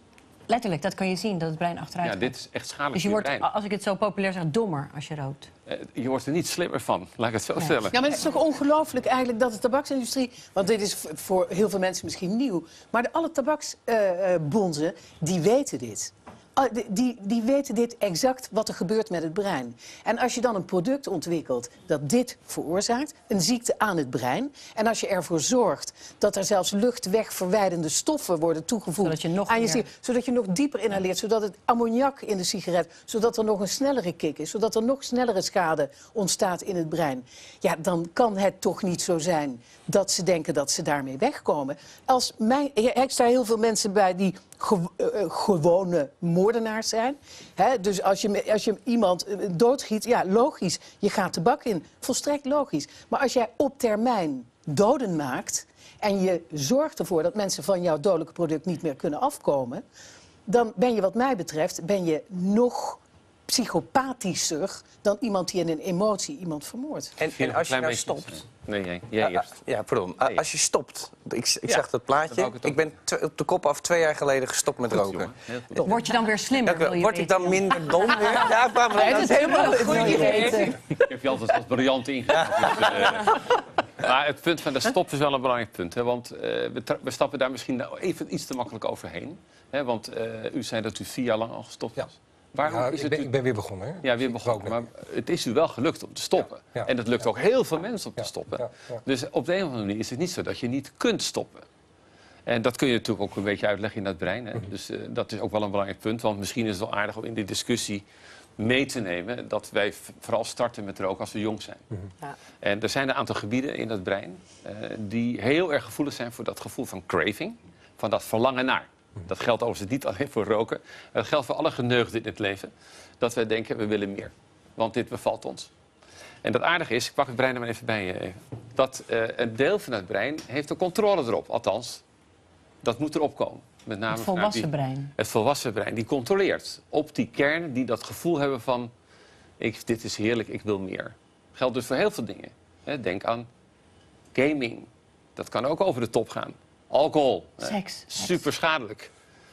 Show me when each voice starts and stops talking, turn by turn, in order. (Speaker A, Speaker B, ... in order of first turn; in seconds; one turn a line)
Speaker A: 0.5-2.4
Speaker B: 2.0-3.5
Speaker A: 2.9-5.5
Speaker B: 5.7-8.0
Speaker C: 7.9-59.8
Speaker A: 29.0-29.9
Speaker C: 60.5-67.2
Speaker D: 67.2-68.4
Speaker B: 67.3-69.6
Speaker D: 69.2-75.9
Speaker B: 72.3-72.8
Speaker B: 74.9-75.9
Speaker A: 75.8-80.8
Speaker D: 76.6-80.7
Speaker B: 79.6-83.4
Speaker D: 82.3-83.4
Speaker B: 84.0-93.3
Speaker E: 92.6-94.8
Speaker B: 94.0-101.7
Speaker E: 96.4-97.1
Speaker E: 98.2-99.0
Speaker B: 102.5-108.0
Speaker B: 108.6-111.8
Speaker B: 112.6-125.7
Speaker B: 126.4-132.0
Speaker B: 132.8-138.9
Speaker A: 134.1-135.1
Speaker B: 139.6-143.5
Speaker B: 144.3-149.1
Speaker A: 147.6-148.4